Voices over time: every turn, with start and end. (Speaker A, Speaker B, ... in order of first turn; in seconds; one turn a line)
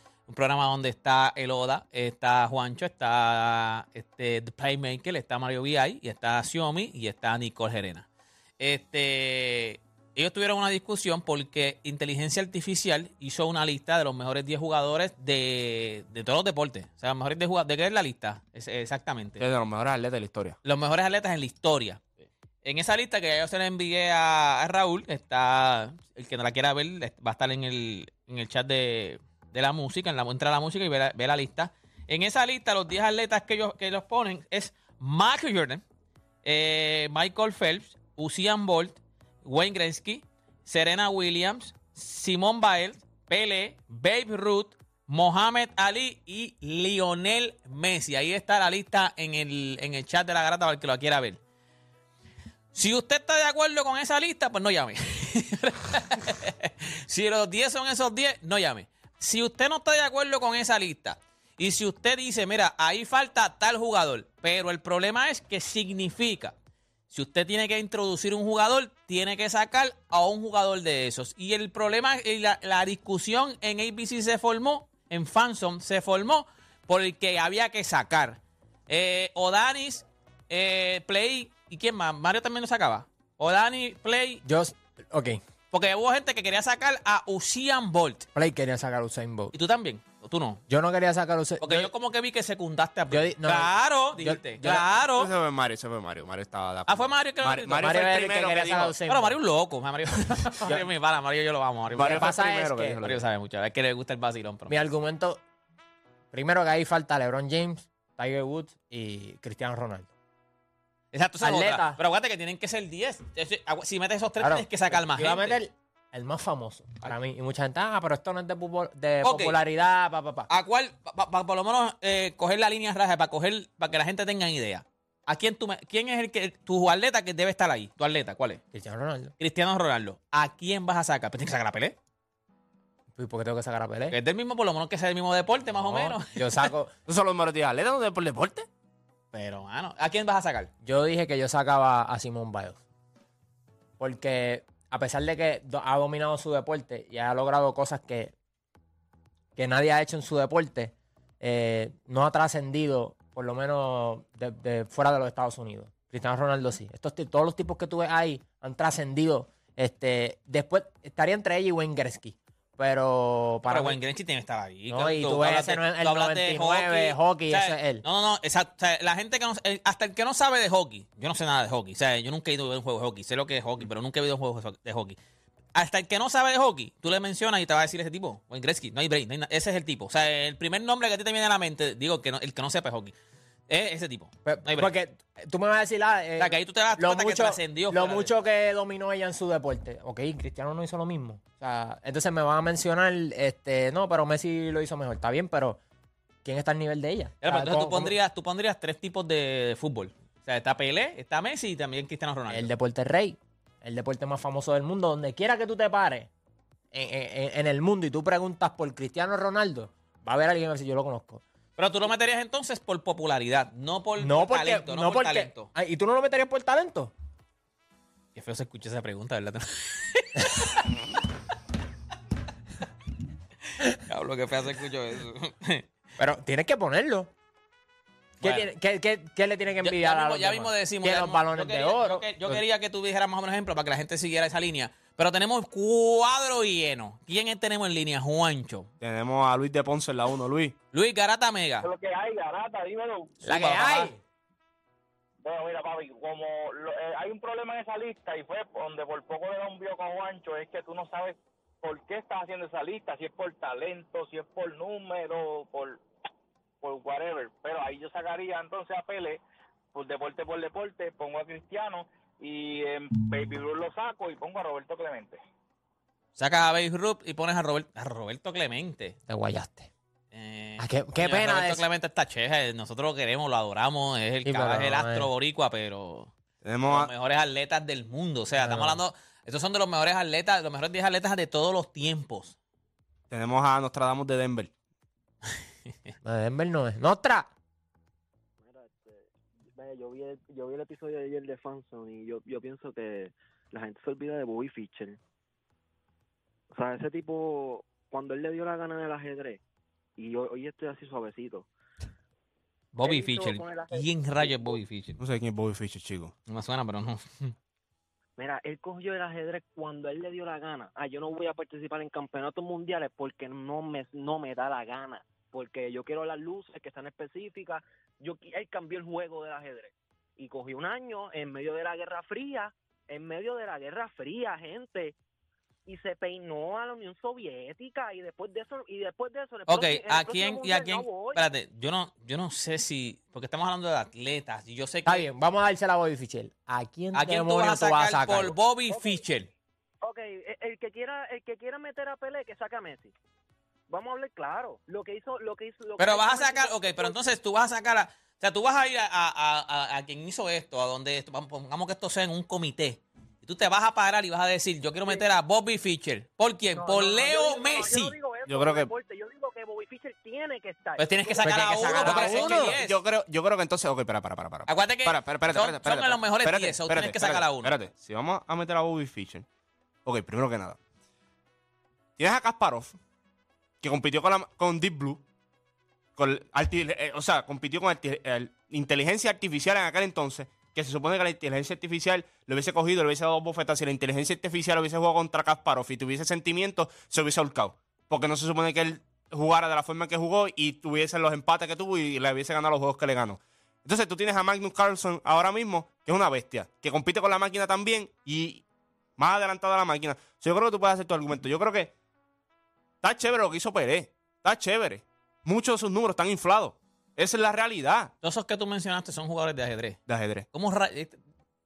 Speaker A: 0.3-8.1
Speaker A: 8.6-19.4
Speaker B: 19.4-20.6
Speaker A: 20.6-22.0
Speaker A: 22.6-35.8
Speaker A: 36.4-51.4
Speaker A: 52.7-66.5
Speaker A: 67.1-84.4
Speaker C: 84.4-85.4
Speaker A: 85.7-88.3
Speaker C: 88.3-89.5
Speaker A: 89.5-90.6
Speaker C: 90.7-91.9
Speaker A: 91.6-95.3
Speaker C: 93.1-94.9
Speaker B: 95.2-99.0
Speaker A: 96.9-97.9
Speaker C: 97.8-99.4
Speaker A: 99.1-102.3
Speaker C: 100.5-100.9
Speaker B: 101.9-103.2
Speaker C: 102.0-103.0
Speaker A: 103.0-104.8
Speaker C: 104.7-105.4
Speaker C: 106.3-110.1
Speaker A: 111.1-115.6
Speaker C: 111.4-112.0
Speaker C: 114.4-120.5
Speaker A: 119.2-119.6
Speaker A: 120.5-128.6
Speaker C: 128.7-129.3
Speaker A: 129.4-131.9
Speaker C: 133.2-134.2
Speaker A: 134.1-136.7
Speaker C: 135.8-136.9
Speaker B: 137.1-138.7
Speaker A: 139.3-140.7
Speaker C: 140.8-142.8
Speaker C: 144.0-148.3
Speaker C: 149.6-164.0
Speaker A: 163.7-175.2
Speaker C: 164.9-168.0
Speaker A: 175.8-183.1
Speaker A: 183.7-184.9
Speaker C: 184.4-195.8
Speaker A: 186.4-188.3
Speaker C: 196.4-198.2
Speaker A: 197.4-202.7
Speaker C: 202.5-206.3
Speaker C: 206.9-211.4
Speaker A: 211.8-215.7
Speaker C: 214.2-217.1
Speaker A: 218.3-221.0
Speaker A: 223.9-225.8
Speaker C: 226.2-227.3
Speaker A: 228.4-228.7
Speaker C: 228.4-232.6
Speaker A: 229.8-238.9
Speaker B: 239.0-240.8
Speaker A: 240.9-241.9
Speaker D: 241.8-243.4
Speaker C: 243.4-244.2
Speaker A: 243.4-244.1
Speaker D: 245.4-256.0
Speaker D: 256.8-259.4
Speaker D: 259.9-265.4
Speaker A: 266.4-269.2
Speaker C: 269.3-269.9
Speaker A: 270.3-276.3
Speaker C: 270.8-271.9
Speaker C: 274.4-275.3
Speaker B: 276.6-277.1
Speaker A: 276.9-282.6
Speaker C: 278.6-279.0
Speaker B: 283.3-284.7
Speaker C: 286.2-287.5
Speaker E: 288.6-295.2
Speaker E: 296.7-299.6
Speaker E: 300.2-301.7
Speaker A: 302.9-305.2
Speaker E: 303.0-304.8
Speaker B: 305.2-306.3
Speaker A: 306.5-307.5
Speaker E: 308.4-325.2
Speaker E: 325.9-331.5
Speaker A: 329.7-335.3
Speaker C: 335.1-338.6
Speaker A: 337.1-339.5
Speaker E: 338.9-339.2
Speaker E: 340.0-343.1
Speaker E: 343.9-347.2
Speaker A: 346.0-358.2
Speaker E: 356.7-362.1
Speaker B: 358.5-358.9
Speaker A: 361.0-363.0
Speaker C: 361.4-362.8
Speaker B: 362.1-369.4
Speaker A: 364.7-367.8
Speaker B: 370.1-370.8
Speaker B: 372.2-373.0
Speaker B: 373.8-375.2
Speaker B: 376.2-398.6
Speaker B: 399.2-401.9
Speaker B: 403.0-408.1
Speaker A: 408.2-410.0
Speaker B: 410.1-410.5
Speaker A: 410.5-411.2